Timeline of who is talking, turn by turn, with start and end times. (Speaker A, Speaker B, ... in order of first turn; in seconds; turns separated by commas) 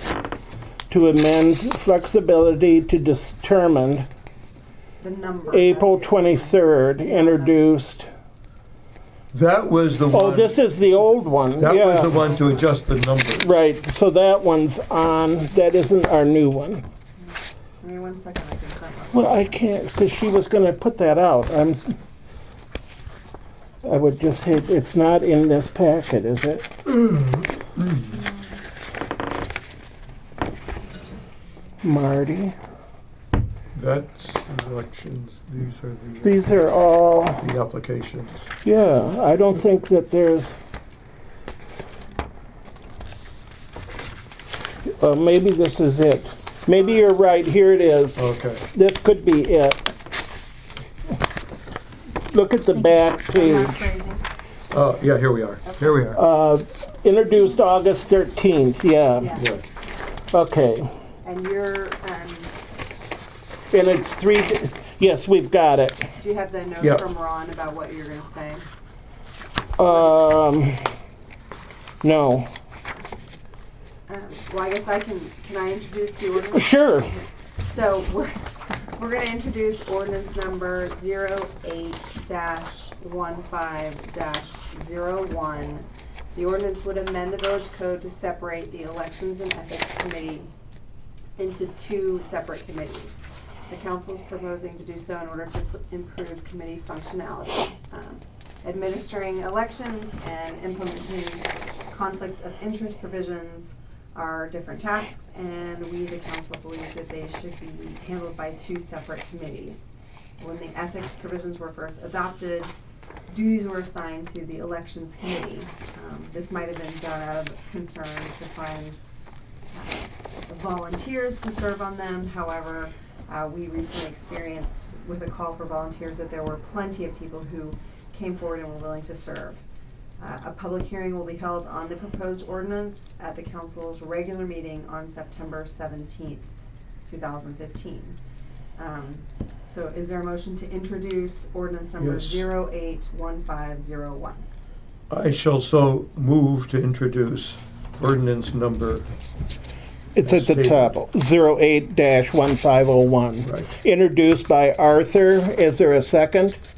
Speaker A: 0.9-4.1, Speaker B: 5.0-7.7, Speaker A: 5.5-8.1, Speaker C: 9.3-10.6, Speaker A: 10.1-12.2, Speaker C: 11.6-13.5, Speaker B: 12.3-12.6, Speaker A: 13.4-16.8, Speaker B: 17.2-19.6, Speaker A: 19.1-21.9, Speaker A: 23.8-26.7, Speaker C: 26.9-28.3, Speaker A: 31.8-32.5, Speaker C: 33.7-36.6, Speaker A: 36.2-37.5, Speaker C: 37.4-38.5, Speaker A: 38.6-40.5, Speaker A: 44.9-49.8, Speaker C: 48.1-48.6, Speaker A: 52.3-53.8, Speaker B: 53.2-54.2, Speaker C: 54.7-56.2, Speaker B: 55.6-56.0, Speaker A: 56.1-59.3, Speaker B: 59.2-59.5, Speaker A: 60.3-60.9, Speaker B: 61.2-62.5, Speaker A: 63.7-66.1, Speaker B: 66.2-68.7, Speaker A: 69.8-70.9, Speaker B: 69.9-70.3, Speaker A: 72.0-72.5, Speaker B: 74.1-78.3, Speaker A: 76.5-77.1, Speaker B: 79.0-90.5, Speaker B: 91.4-112.7, Speaker B: 113.3-119.0, Speaker B: 119.7-129.6, Speaker B: 130.2-136.5, Speaker B: 137.0-138.2, Speaker B: 138.8-144.4, Speaker C: 142.0-142.5, Speaker C: 145.1-149.1, Speaker A: 150.2-156.6, Speaker C: 150.2-150.9, Speaker C: 153.4-153.7